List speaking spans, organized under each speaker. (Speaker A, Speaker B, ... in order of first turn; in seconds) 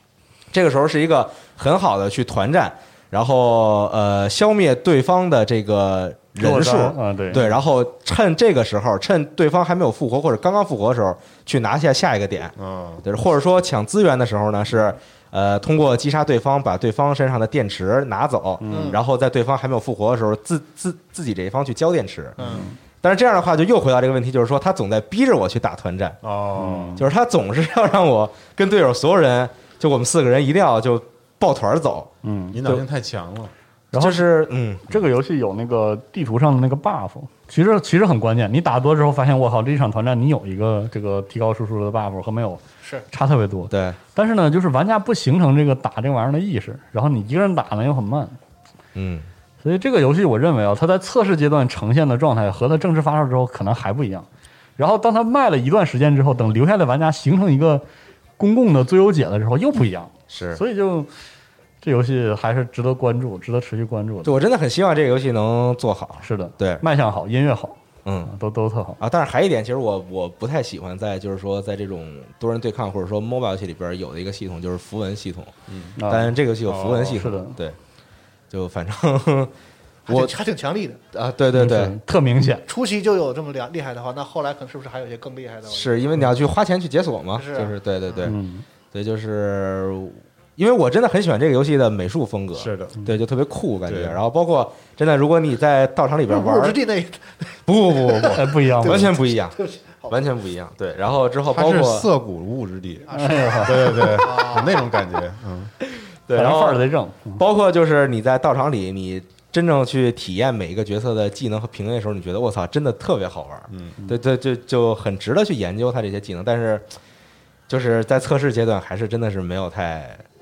Speaker A: 0.5-22.4, 23.0-26.2, 27.0-32.1, 34.0-34.9, 43.7-44.0, 49.0-49.3, 60.3-60.6, 64.2-66.8, 68.0-68.3, 69.0-75.5, 76.1-77.8, 78.5-79.5, 80.1-80.3, 81.1-82.0, 85.7-88.3, 88.9-96.8, 97.7-99.6, 100.1-102.1, 105.9-106.8, 107.4-116.9, 117.7-120.2
Speaker B: 6.4-7.4, 18.6-19.0, 22.4-22.8, 26.6-27.0, 32.2-32.8, 33.9-34.2, 34.9-48.4, 49.6-54.3, 54.8-57.8, 58.4-61.1, 61.8-64.4, 66.2-69.0, 76.0-76.4, 77.2-77.6, 81.5-82.7, 88.2-88.7, 98.3-99.1, 103.1-104.1, 106.3-107.4
Speaker C: 12.6-13.0, 22.4-22.7, 26.2-27.0, 32.5-33.5, 75.7-76.0, 76.7-77.2, 92.5-93.0, 93.9-94.2, 101.5-105.7, 113.7-114.0
Speaker D: 18.7-19.0, 80.1-81.0, 82.7-86.0, 87.4-88.3, 96.3-100.2, 103.1-105.0